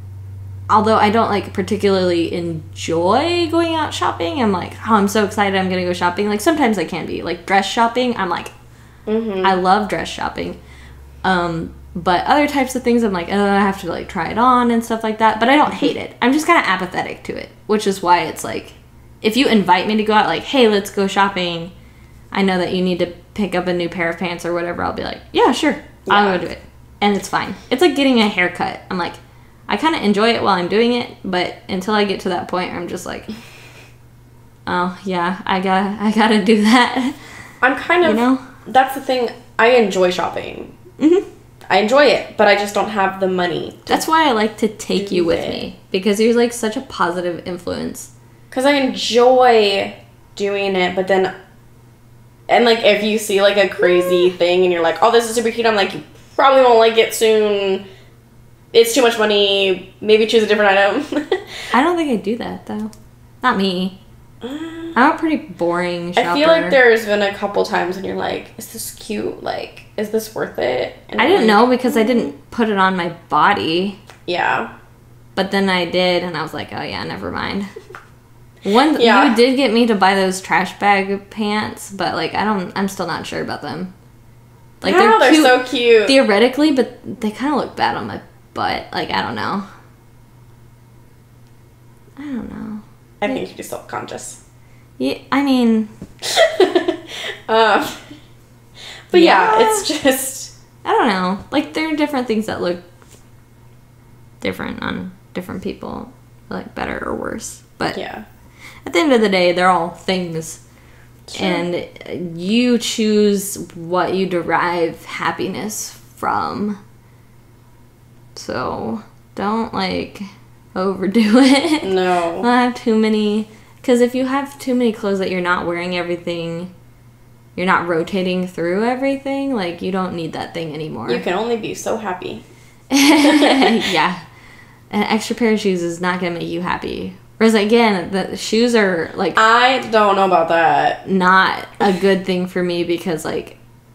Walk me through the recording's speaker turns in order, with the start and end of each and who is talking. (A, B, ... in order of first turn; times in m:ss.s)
0:00.7-0:08.5 A
0:09.0-0:09.6 B
0:09.4-0:10.6 A
0:11.2-0:21.7 A
0:22.3-0:33.3 A
0:26.0-0:26.4 B
0:34.6-0:37.2 A
0:37.6-0:40.7 B
0:38.0-0:38.4 A
0:41.0-0:41.2 A
0:41.7-0:44.0 B
0:43.9-0:48.1 A
0:44.9-0:45.6 B
0:48.5-0:51.3 B
0:52.5-0:57.8 B
0:58.7-1:01.6 B
1:01.7-1:02.9 A
1:03.4-1:04.0 A
1:04.4-1:05.0 B
1:04.9-1:06.8 A
1:06.2-1:12.3 B
1:11.2-1:14.0 A
1:14.2-1:14.7 B
1:15.4-1:17.7 A
1:18.6-1:23.9 A
1:19.0-1:19.4 B
1:24.8-1:29.7 A
1:24.8-1:26.1 B
1:32.2-1:33.4 A
1:33.2-1:34.4 B
1:35.0-1:35.9 A
1:36.2-1:38.0 B
1:39.1-1:40.5 B
1:39.1-1:39.9 A
1:40.8-1:42.8 A
1:44.4-1:48.0 A
1:47.9-1:48.2 B
1:48.8-1:50.6 A
1:51.3-1:51.6 B
1:51.3-1:56.8 A
1:58.3-2:00.2 A
2:00.7-2:06.7 A
2:01.8-2:02.5 B
2:07.6-2:11.2 A
2:11.1-2:12.4 B
2:12.9-2:14.2 A
2:13.2-2:13.9 B
2:14.9-2:19.4 A
2:19.4-2:21.0 B
2:21.0-2:23.6 A